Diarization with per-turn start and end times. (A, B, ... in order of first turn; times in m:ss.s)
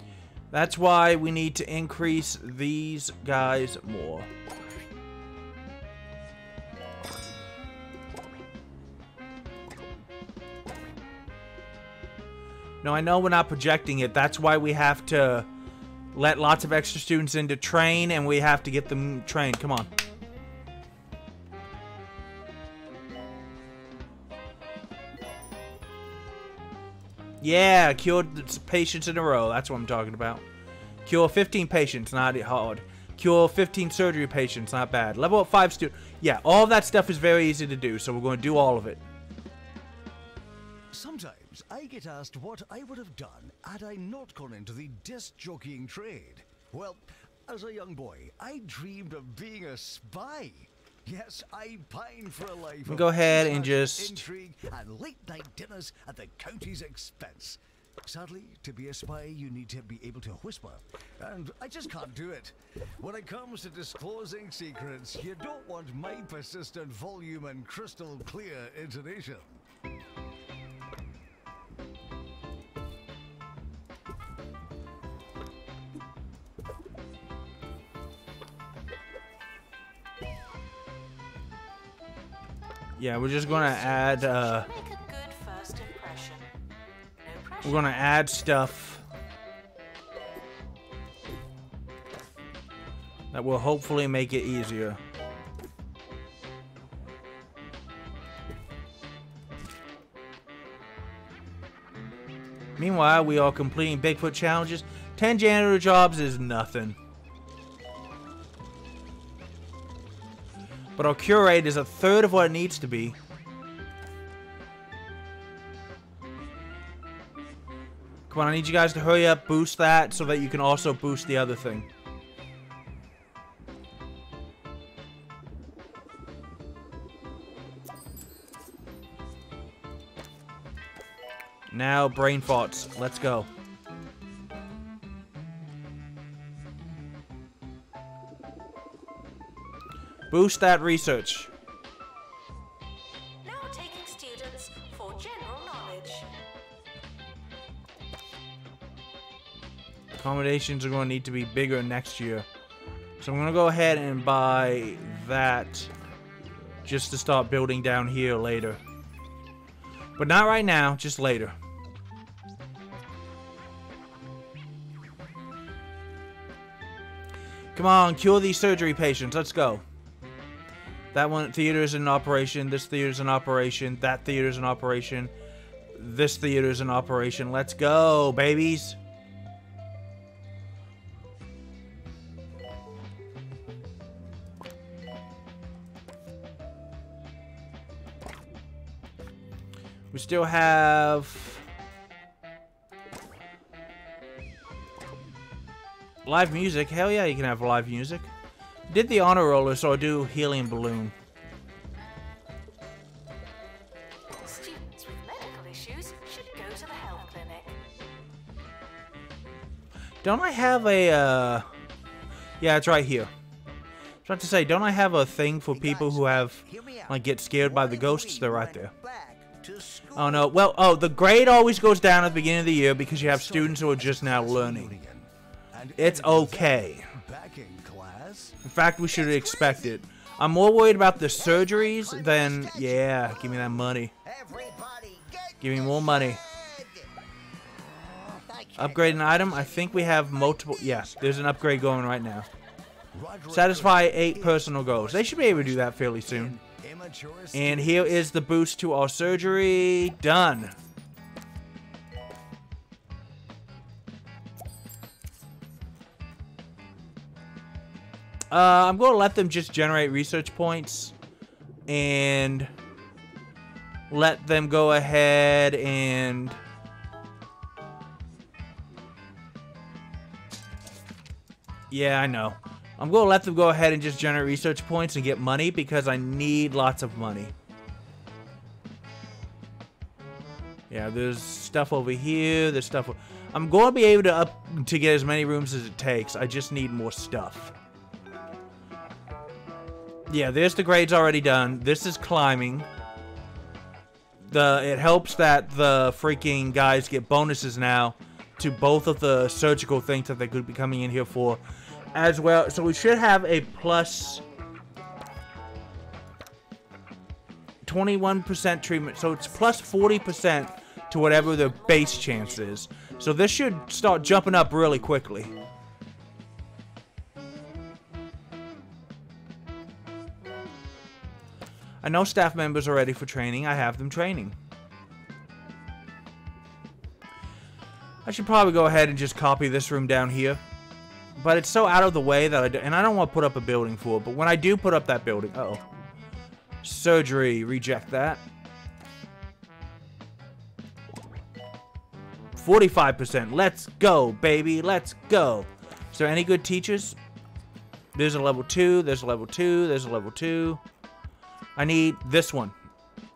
0:00.5-0:04.3 A
0:12.8-0:15.5 A
0:16.1-0:19.9 A
0:27.4-0:30.4 A
0:31.0-0:39.0 A
0:40.9-1:09.6 B
0:52.9-0:54.2 A
1:23.0-1:24.7 A
1:23.5-1:26.5 C
1:27.2-1:28.1 C
1:27.6-1:29.0 A
1:33.3-1:35.0 A
1:42.8-1:47.0 A
1:51.0-1:53.2 A
1:58.3-2:01.9 A
2:11.7-2:13.5 A
2:20.3-2:21.5 A
2:23.4-2:26.3 C
2:30.2-2:32.5 A
2:33.2-2:35.9 A
2:36.8-2:38.8 A
2:40.2-2:41.6 A
2:47.8-2:49.8 A
2:51.1-2:55.3 A
2:56.0-2:59.0 A
3:10.1-3:11.6 A
3:16.3-3:18.3 A
3:18.9-3:21.2 A
3:24.4-3:27.8 C
3:30.2-3:31.7 A
3:32.6-3:33.3 A
3:34.2-3:38.9 A
3:35.7-3:40.5 B
3:40.2-3:44.9 A
3:43.2-3:48.6 B
3:46.0-3:47.1 A
3:48.6-3:54.1 A
3:49.3-3:49.8 B
3:51.3-3:57.1 B
3:55.6-3:56.4 A
3:58.1-4:00.0 B
3:58.8-4:02.5 A
4:03.1-4:08.3 B
4:03.5-4:06.6 A
4:07.5-4:10.8 A
4:18.5-4:21.2 A
4:21.9-4:22.7 A
4:24.1-4:26.6 A
4:31.9-4:37.5 A
4:40.9-4:47.7 A
4:50.3-4:52.9 A
4:54.4-5:01.6 A
5:02.1-5:04.4 A
5:07.8-5:15.5 A
5:09.2-5:12.8 C
5:22.0-5:24.6 A
5:28.2-5:30.6 A
5:31.4-5:35.8 A
5:36.8-5:38.4 A
5:42.6-5:47.2 A
5:48.2-5:50.8 A
5:51.8-5:52.8 A